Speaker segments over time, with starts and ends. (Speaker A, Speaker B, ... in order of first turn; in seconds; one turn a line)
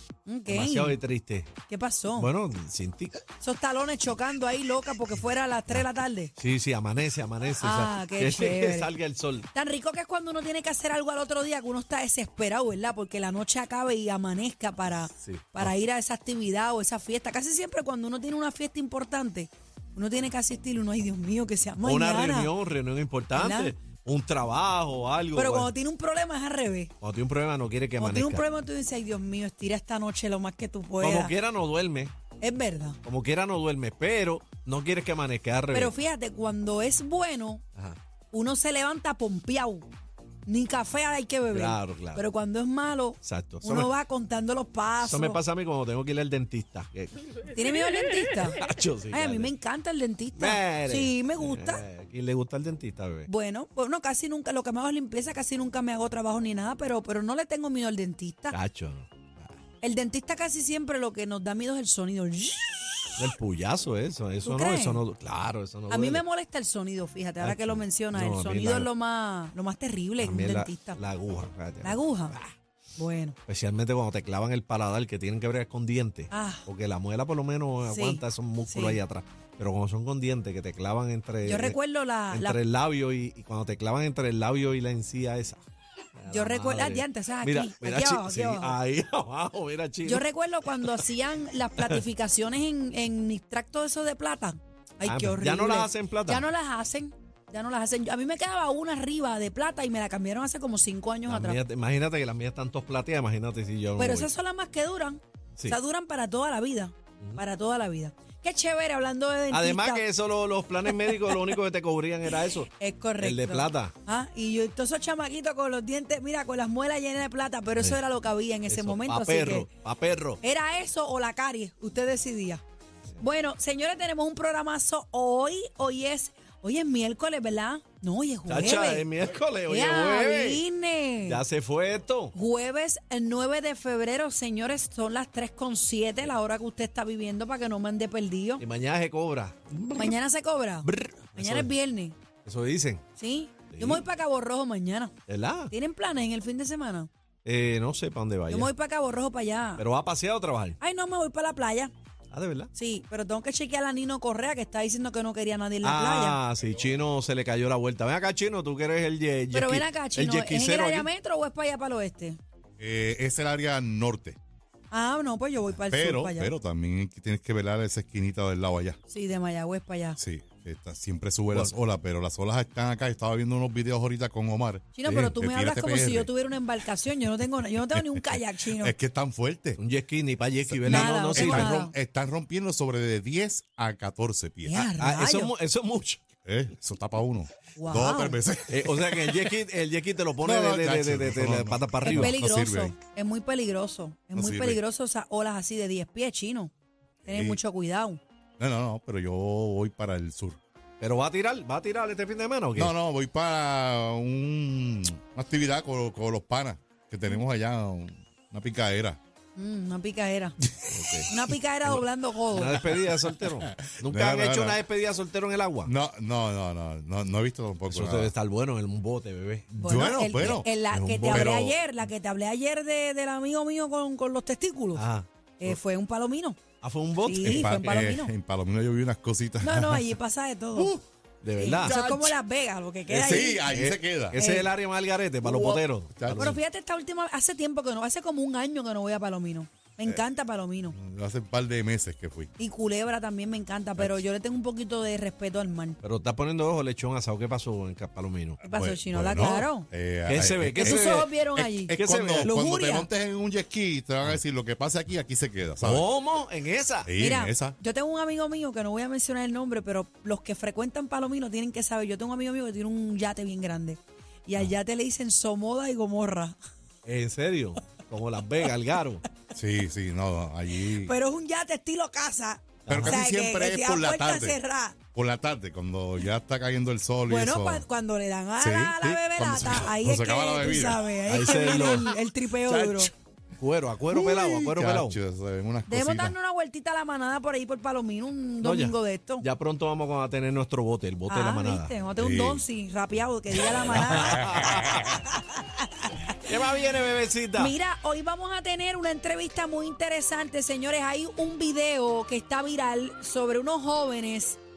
Speaker A: 0.2-1.0
Speaker B: 0.5-1.5
Speaker A: 1.7-2.3
Speaker B: 2.2-3.2
Speaker A: 3.4-6.3
Speaker B: 6.4-9.5
Speaker A: 7.6-8.9
Speaker A: 9.5-22.5
Speaker B: 15.2-15.7
Speaker B: 21.8-25.7
Speaker A: 23.3-23.7
Speaker A: 25.3-26.9
Speaker B: 27.0-28.4
Speaker A: 28.0-31.3
Speaker B: 31.0-32.1
Speaker A: 32.4-33.0
Speaker B: 33.0-35.9
Speaker A: 35.7-37.6
Speaker A: 38.3-39.9
Speaker A: 40.5-45.4
Speaker B: 41.5-42.2
Speaker B: 43.2-43.9
Speaker B: 45.0-47.4
Speaker A: 47.5-48.6
Speaker B: 48.6-49.5
Speaker A: 49.1-51.8
Speaker B: 50.3-53.3
Speaker A: 53.2-58.6
Speaker B: 58.5-59.5
Speaker A: 59.8-63.3
Speaker B: 63.1-66.2
Speaker A: 64.4-65.0
Speaker A: 65.9-71.0
Speaker B: 67.4-68.9
Speaker B: 70.2-72.3
Speaker A: 71.8-73.3
Speaker B: 73.5-81.8
Speaker A: 76.3-76.6
Speaker A: 77.8-79.0
Speaker A: 81.4-82.6
Speaker B: 82.3-85.6
Speaker B: 86.2-90.2
Speaker A: 86.3-88.8
Speaker A: 90.0-101.6
Speaker B: 90.8-91.0
Speaker B: 95.0-96.5
Speaker B: 101.3-104.3
Speaker A: 104.0-110.0
Speaker B: 109.5-113.9
Speaker A: 110.9-111.4
Speaker A: 112.7-119.7
Speaker B: 118.7-120.4
Speaker A: 120.4-122.6
Speaker A: 123.2-129.1
Speaker B: 128.5-130.6
Speaker A: 129.6-131.4
Speaker B: 131.2-132.3
Speaker A: 132.3-138.6
Speaker B: 138.6-140.2
Speaker A: 139.9-142.2
Speaker B: 140.8-141.7
Speaker B: 142.4-143.0
Speaker A: 143.2-145.1
Speaker B: 143.7-144.0
Speaker B: 145.3-145.7
Speaker A: 145.7-147.1
Speaker B: 147.4-148.7
Speaker A: 148.5-149.8
Speaker B: 149.8-150.8
Speaker A: 150.8-151.9
Speaker B: 152.3-152.7
Speaker A: 152.7-156.4
Speaker B: 155.8-161.1
Speaker A: 159.5-162.4
Speaker C: 162.8-164.4
Speaker A: 164.9-166.5
Speaker C: 165.9-169.0
Speaker A: 169.1-170.2
Speaker C: 170.2-176.3
Speaker A: 174.9-178.9
Speaker C: 177.9-179.8
Speaker B: 179.8-181.8
Speaker C: 180.7-184.9
Speaker A: 180.8-181.9
Speaker A: 184.6-185.5
Speaker B: 185.0-186.2
Speaker C: 186.4-189.6
Speaker A: 187.8-188.4
Speaker B: 188.7-192.3
Speaker C: 190.4-192.9
Speaker A: 192.0-196.7
Speaker C: 194.3-194.8
Speaker C: 197.2-197.6
Speaker A: 197.2-198.2
Speaker C: 198.6-200.6
Speaker B: 201.0-202.9
Speaker C: 202.8-209.2
Speaker A: 209.6-210.6
Speaker B: 210.9-211.3
Speaker A: 211.3-212.9
Speaker B: 211.8-215.9
Speaker C: 213.6-214.8
Speaker C: 215.8-218.3
Speaker B: 217.9-219.8
Speaker A: 219.7-225.1
Speaker C: 219.8-220.7
Speaker B: 220.4-221.5
Speaker C: 221.2-221.8
Speaker B: 224.9-225.8
Speaker A: 225.6-226.6
Speaker B: 226.8-227.9
Speaker A: 227.2-228.3
Speaker C: 227.4-230.1
Speaker A: 229.6-230.9
Speaker C: 230.7-231.0
Speaker B: 231.4-232.0
Speaker A: 231.6-233.7
Speaker C: 231.8-232.3
Speaker C: 233.1-234.4
Speaker B: 233.2-236.6
Speaker A: 234.3-234.7
Speaker C: 235.4-236.6
Speaker A: 236.3-240.9
Speaker C: 240.9-242.5
Speaker A: 242.6-246.0
Speaker B: 246.0-248.6
Speaker A: 248.6-249.9
Speaker C: 248.6-256.1
Speaker B: 250.3-251.3
Speaker A: 250.8-253.1
Speaker B: 251.9-252.5
Speaker B: 255.8-257.1
Speaker C: 257.0-257.8
Speaker A: 257.2-266.6
Speaker B: 267.0-269.2
Speaker C: 269.5-271.1
Speaker A: 270.8-275.0
Speaker B: 272.9-273.2
Speaker C: 272.9-274.6
Speaker C: 275.1-277.8
Speaker A: 277.3-283.1
Speaker C: 278.6-281.0
Speaker B: 281.3-282.2
Speaker C: 282.6-283.1
Speaker B: 283.6-285.2
Speaker C: 284.1-286.3
Speaker A: 285.9-289.4
Speaker B: 288.6-291.9
Speaker A: 291.3-296.4
Speaker C: 292.1-292.6
Speaker B: 293.6-295.2
Speaker B: 296.4-297.7
Speaker A: 297.5-304.6